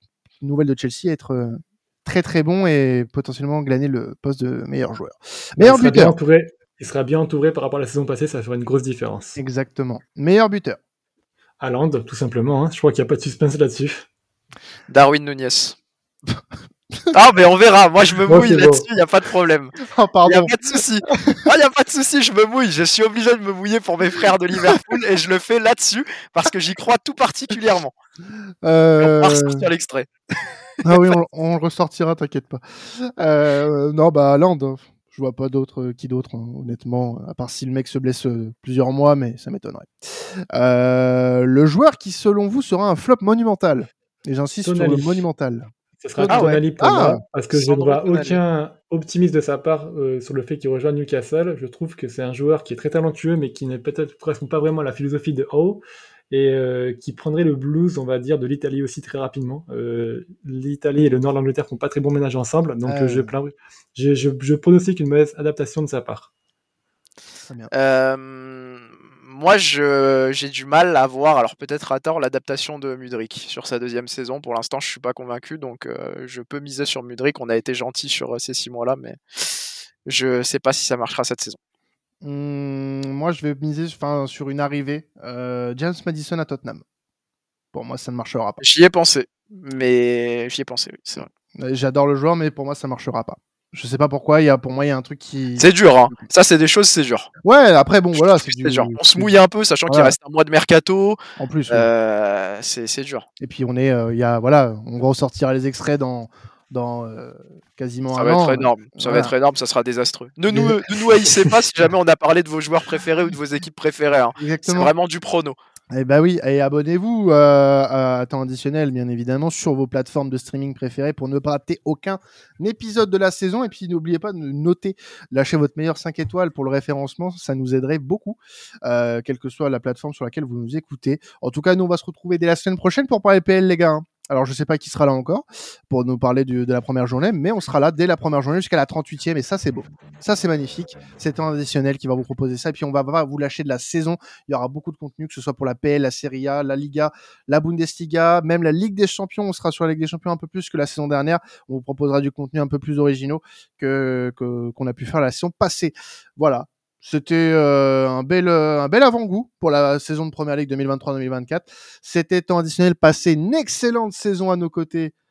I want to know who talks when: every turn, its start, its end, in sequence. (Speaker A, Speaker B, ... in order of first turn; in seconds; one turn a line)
Speaker A: 0.4-6.1
Speaker B: 5.6-9.4
Speaker A: 9.4-10.8
Speaker B: 11.6-14.1
Speaker C: 14.9-15.8
Speaker C: 17.1-27.9
Speaker B: 18.3-18.9
Speaker A: 19.9-20.5
Speaker A: 21.2-21.4
Speaker A: 28.6-29.6
Speaker C: 29.0-30.1
Speaker A: 30.8-47.2
Speaker C: 30.9-31.2
Speaker B: 44.6-45.3
Speaker B: 46.0-66.3
Speaker C: 46.3-46.6
Speaker C: 47.5-48.4
Speaker A: 62.8-63.3
Speaker C: 67.7-81.6
Speaker A: 82.2-86.8
Speaker A: 87.7-88.6
Speaker C: 88.6-91.3
Speaker A: 91.5-96.2
Speaker C: 95.6-97.3
Speaker A: 97.5-99.3
Speaker C: 98.1-101.2
Speaker A: 99.9-100.1
Speaker A: 101.4-101.9
Speaker C: 101.7-103.3
Speaker A: 103.4-109.3
Speaker C: 108.1-115.5
Speaker A: 110.5-111.5
Speaker A: 114.4-114.9
Speaker A: 115.9-165.1